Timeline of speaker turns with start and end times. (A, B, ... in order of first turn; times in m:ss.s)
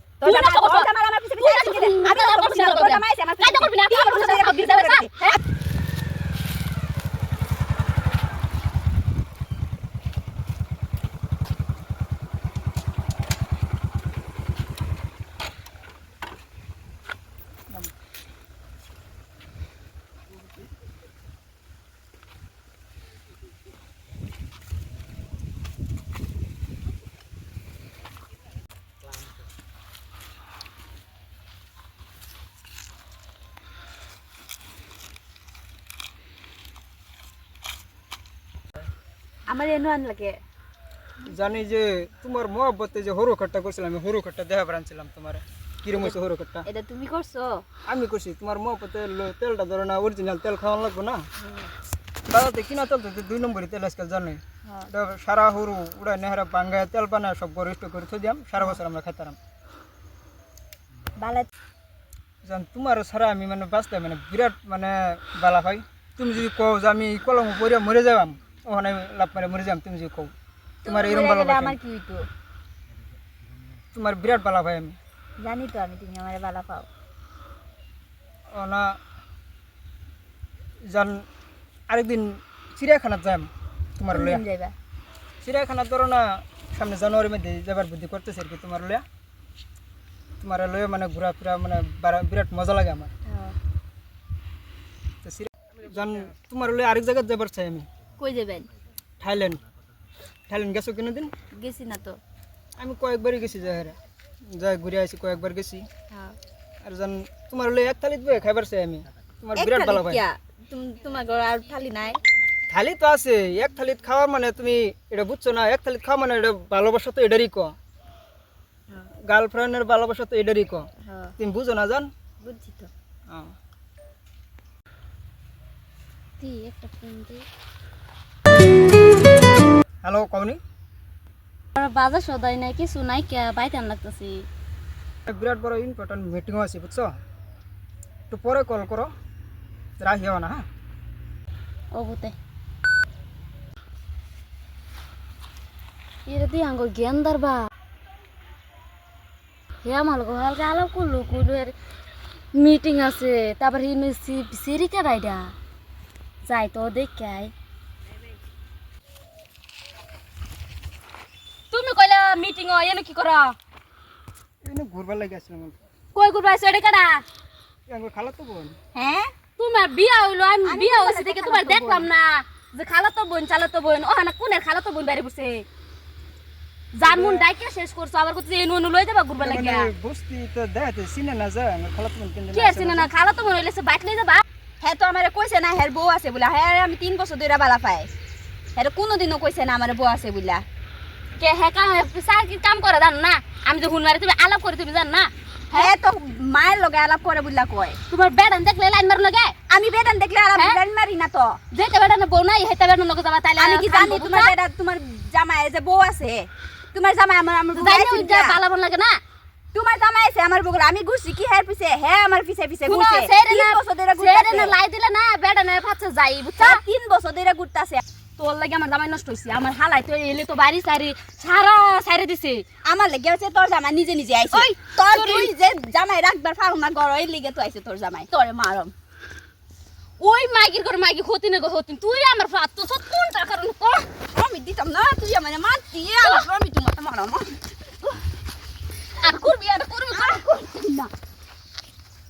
0:00.2-0:05.4 A
0:00.2-0:05.4 B
0:39.5-0:40.4 A
0:41.2-0:46.7 C
0:45.9-0:47.6 A
0:47.9-0:51.2 C
0:52.3-0:59.4 C
1:01.2-1:01.5 A
1:02.4-1:10.3 C
1:10.8-1:11.8 C
1:10.8-1:12.3 A
1:13.9-1:15.0 C
1:15.4-1:16.9 A
1:18.5-1:19.0 C
1:20.8-1:21.3 C
1:21.9-1:24.4 C
1:24.1-1:24.7 A
1:25.4-1:29.0 C
1:30.4-1:33.1 C
1:33.3-1:33.6 A
1:35.2-1:37.9 C
1:38.2-1:38.7 A
1:39.2-1:39.6 C
1:40.5-1:41.3 C
1:41.6-1:42.2 A
1:42.8-1:44.0 C
1:44.5-1:45.8 C
1:46.8-1:50.2 C
1:49.6-1:52.2 A
1:52.7-1:57.8 C
1:59.3-2:02.1 C
2:01.1-2:01.3 A
2:02.4-2:02.9 A
2:03.3-2:03.5 C
2:06.4-2:07.4 B
2:10.0-2:10.6 C
2:11.8-2:14.5 B
2:15.3-2:17.1 C
2:18.3-2:19.1 C
2:20.0-2:20.6 C
2:21.9-2:22.4 B
2:26.3-2:27.7 B
2:29.8-2:31.7 B
2:32.6-2:35.5 B
2:36.4-2:37.5 B
2:41.7-2:43.6 B
2:44.6-2:45.8 C
2:46.2-2:47.2 B
2:47.9-2:48.8 C
2:48.9-2:49.3 A
2:49.6-2:55.7 B
2:50.6-2:52.1 A
2:56.9-2:59.9 B
2:57.0-2:57.5 C
2:59.4-3:03.1 C
3:02.5-3:04.4 B
3:04.8-3:08.1 A
3:08.8-3:10.6 A
3:11.4-3:16.0 B
3:15.7-3:18.0 A
3:18.1-3:19.6 B
3:19.7-3:21.6 A
3:21.7-3:24.6 B
3:23.6-3:28.6 A
3:27.7-3:29.2 B
3:29.7-3:34.7 A
3:32.9-3:36.8 B
3:36.6-3:38.0 A
3:38.4-3:42.7 B
3:42.9-3:48.9 A
3:44.5-3:45.5 B
3:50.2-3:54.1 B
3:54.3-3:57.6 A
3:59.2-4:00.4 B
4:00.1-4:01.1 A